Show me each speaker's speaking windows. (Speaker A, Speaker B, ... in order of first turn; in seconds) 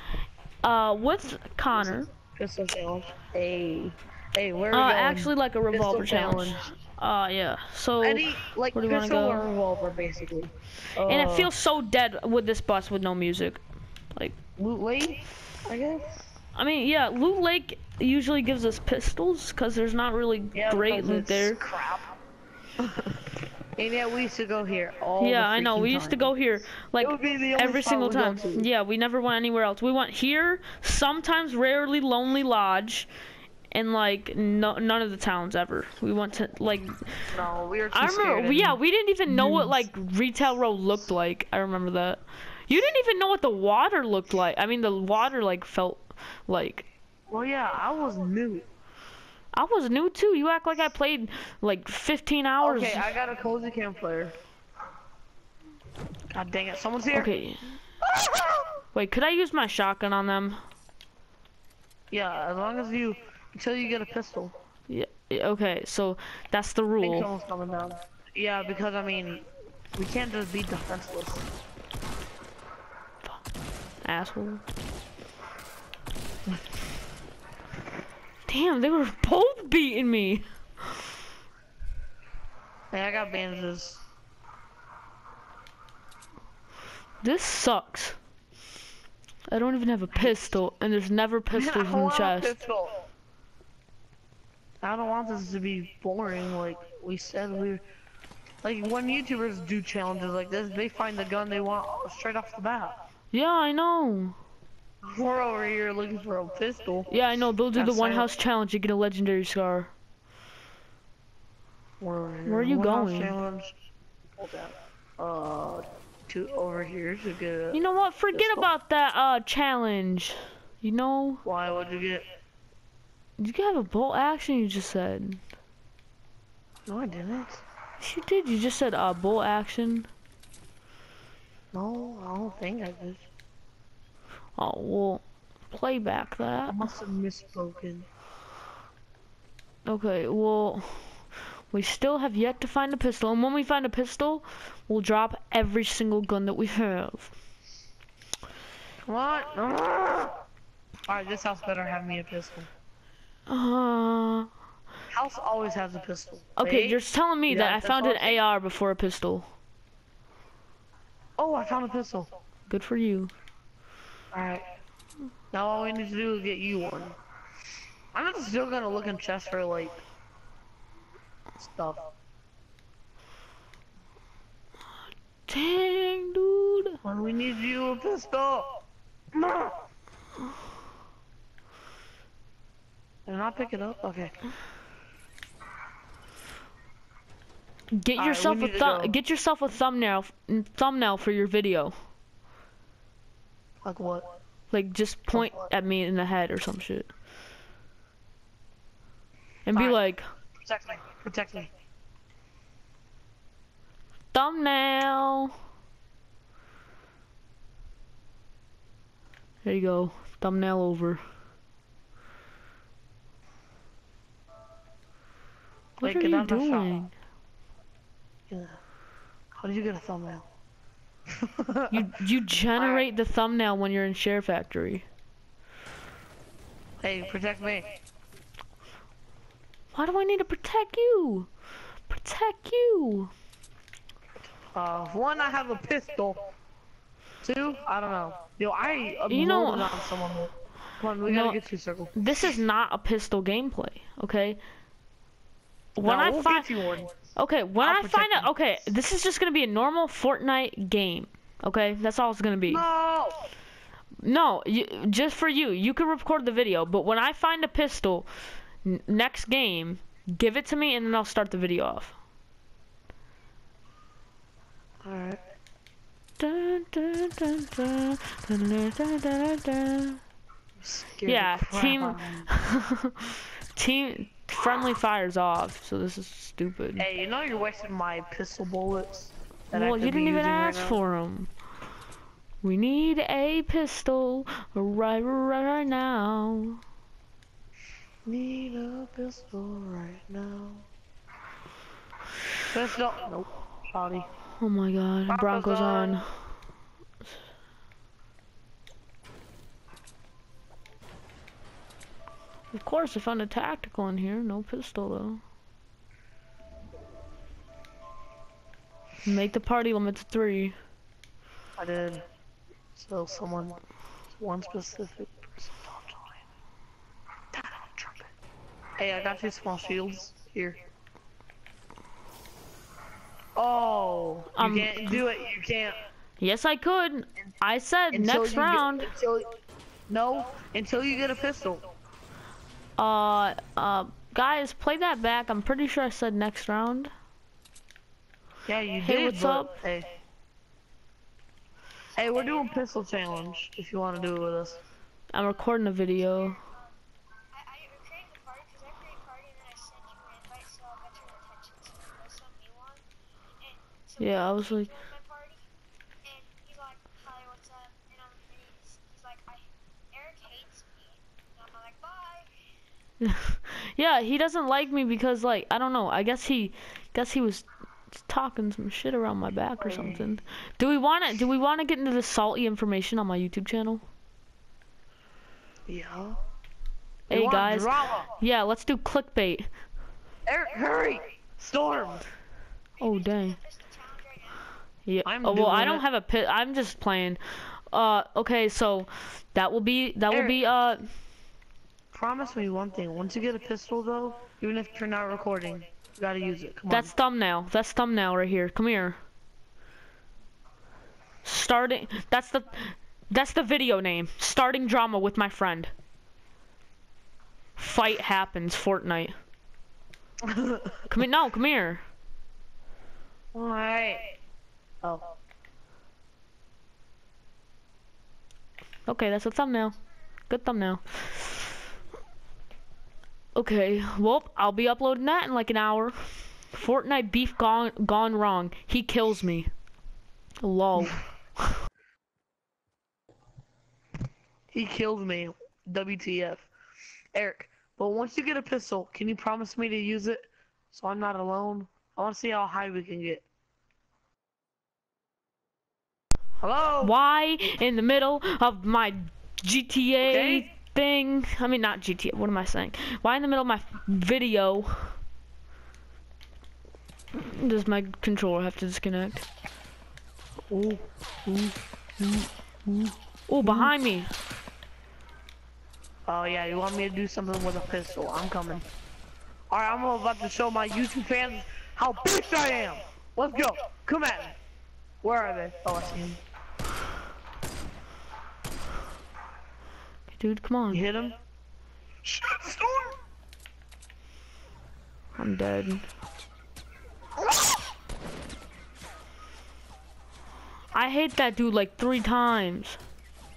Speaker A: 0.6-2.1, 4.7-9.4, 11.0-13.6, 16.5-21.6, 25.2-33.1, 33.7-37.2, 37.9-46.9, 49.5-53.1, 57.1-57.6, 58.9-60.6, 64.9-67.3, 74.0-74.6, 78.5-80.9, 87.2-88.2, 89.5-92.5, 103.3-104.4, 107.1-109.9, 112.4-113.3, 117.7-121.4, 123.4-125.4, 128.0-130.1, 134.6-136.9, 139.8-147.3, 153.5-154.5, 156.6-159.5, 162.7-163.3, 175.5-177.0, 187.9-191.9, 194.7-197.1, 199.7-200.3, 204.3-205.5, 209.6-211.2, 216.0-217.1, 221.9-225.1, 229.9-231.5, 232.1-233.3, 239.3-240.0, 241.2-241.6, 242.1-244.6, 245.9-246.7, 247.3-252.8, 254.2-258.3, 258.8-262.1, 266.4-270.2, 271.2-277.1, 279.7-281.5, 282.6-286.8, 294.6-296.5, 302.7-305.4, 309.2-310.8, 324.6-325.2, 326.4-329.1, 333.0-337.1, 339.0-339.7, 345.3-346.6, 354.2-355.1, 363.2-374.0, 377.3-379.7, 383.0-383.6, 385.1-391.0, 396.9-399.2, 401.4-405.9, 407.8-409.4, 411.1-412.0, 419.1-421.8, 423.5-429.7, 430.6-431.8, 447.0-455.1, 457.3-459.4, 463.5-464.3, 480.3-481.0, 485.3-486.1, 490.9-493.0
Speaker B: 1.7-6.7, 8.0-11.5, 14.6-16.1, 20.5-22.1, 22.8-23.2, 23.8-26.3, 27.0-28.7, 37.3-39.8, 47.3-48.6, 52.6-54.3, 56.3-57.3, 58.1-58.6, 62.1-64.5, 67.0-71.5, 82.9-84.0, 90.1-90.4, 91.5-93.0, 94.8-97.8, 98.6-103.0, 105.0-107.1, 107.7-108.3, 112.0-113.7, 114.4-117.8, 118.3-118.7, 121.4-122.2, 126.8-127.6, 131.7-133.2, 136.7-138.1, 149.0-150.4, 151.1-152.7, 155.1-158.4, 161.4-162.3, 164.3-164.7, 165.5-167.2, 168.1-170.0, 171.6-172.0, 177.0-178.7, 179.3-179.8, 183.2-184.3, 188.2-189.1, 193.8-194.3, 195.3-195.7, 199.7-200.0, 200.6-201.7, 216.0-216.9, 218.5-218.8, 219.6-220.4, 221.4-222.0, 222.8-223.0, 227.0-227.9, 234.7-236.5, 237.4-242.2, 246.0-247.1, 247.8-248.5, 252.7-253.4, 265.0-265.4, 270.8-272.5, 277.0-281.0, 288.2-290.9, 292.7-294.3, 295.3-296.2, 311.8-312.2, 312.9-313.8, 314.3-316.4, 317.5-318.3, 319.0-320.8, 323.6-326.0, 328.1-329.5, 330.1-331.9, 338.6-340.1, 342.1-344.8, 369.8-370.3, 375.9-376.4, 377.3-378.3, 380.5-382.2, 385.2-386.0, 390.3-390.6, 392.1-397.1, 410.4-411.0, 413.5-414.3, 415.0-415.3, 434.7-436.7, 437.3-440.4, 440.9-443.4, 446.6-447.1, 450.2-450.6, 460.7-463.9, 466.2-468.8, 469.7-474.6, 475.2-476.4, 480.9-481.4, 482.2-483.2
Speaker C: 347.7-353.0, 356.4-359.5, 360.1-360.9, 361.6-362.4, 383.9-384.4